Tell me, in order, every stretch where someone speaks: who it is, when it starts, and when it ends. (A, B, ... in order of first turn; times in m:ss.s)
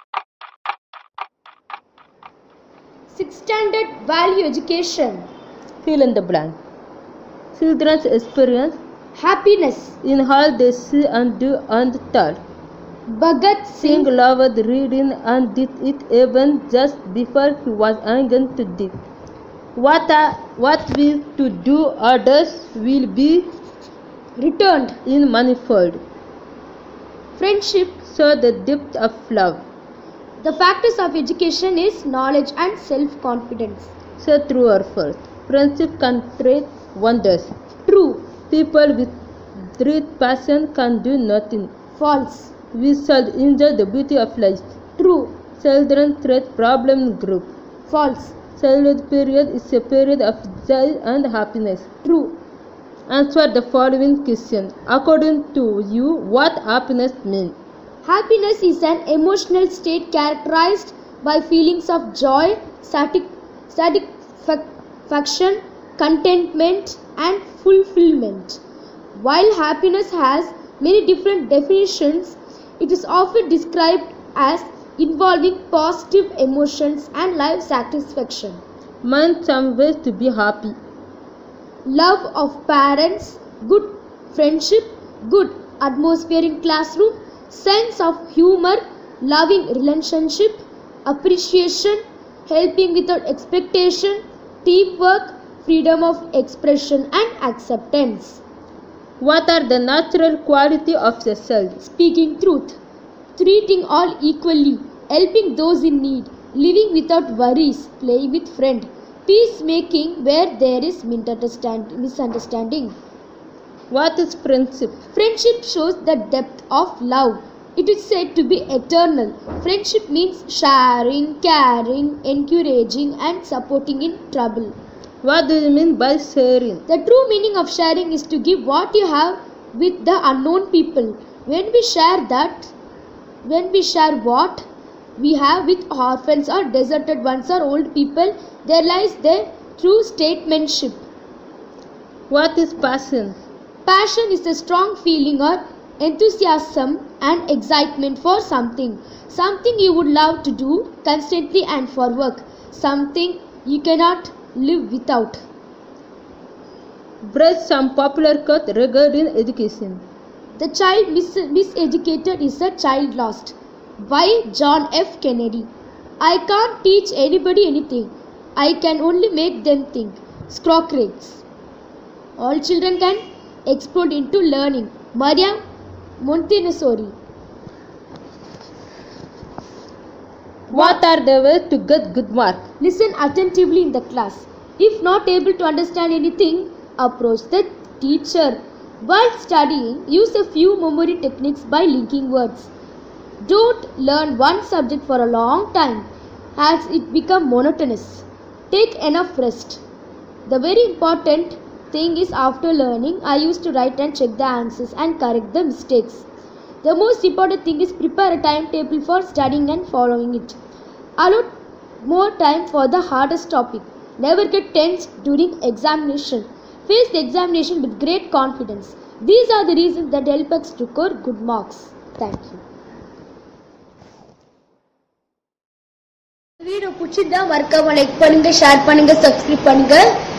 0:03.1-0:05.3 A
0:05.8-0:06.6 B
0:07.6-0:08.8 B
0:09.2-0:10.0 A
0:10.0-0:12.4 B
0:13.1-0:14.1 A
0:13.8-0:18.9 B
0:19.8-0:23.5 B
0:24.4-0:25.0 A
0:25.0-0:26.0 B
0:27.4-0:28.0 A
0:28.0-0:29.6 B
0:30.4-0:33.9 A
0:34.2-0:37.5 B
0:37.9-0:38.3 A
0:38.5-0:39.1 B
0:39.8-0:41.7 B
0:42.0-0:42.5 A
0:42.7-0:44.8 B
0:45.0-0:45.4 A
0:45.6-0:47.5 B
0:47.9-0:48.4 A
0:48.6-0:51.9 B
0:52.0-0:52.4 A
0:53.1-0:57.6 B
0:58.0-1:08.6 A
1:09.2-1:18.6 A
1:19.0-1:20.8 B
1:21.9-1:38.4 A
1:39.2-1:41.8 B
1:41.8-1:42.8 A
1:43.4-1:53.0 A
1:53.9-1:55.0 B
1:55.1-2:04.7 A
2:05.2-2:06.8 B
2:06.9-2:12.7 A
2:13.4-2:14.7 A
2:15.2-2:21.0 A
2:22.3-2:23.4 B
2:23.9-2:35.4 A
2:37.2-2:40.0 B
2:40.6-2:45.7 A
2:46.2-2:51.4 A
2:52.4-2:55.6 A
2:56.2-2:57.1 A
3:00.7-3:01.0 A
3:00.7-3:02.6 B
3:02.8-3:12.7 A
3:13.4-3:19.8 A
3:20.5-3:26.3 A
3:26.8-3:30.6 A
3:31.2-3:31.5 A
3:32.0-3:42.6 A
3:46.6-3:50.1 A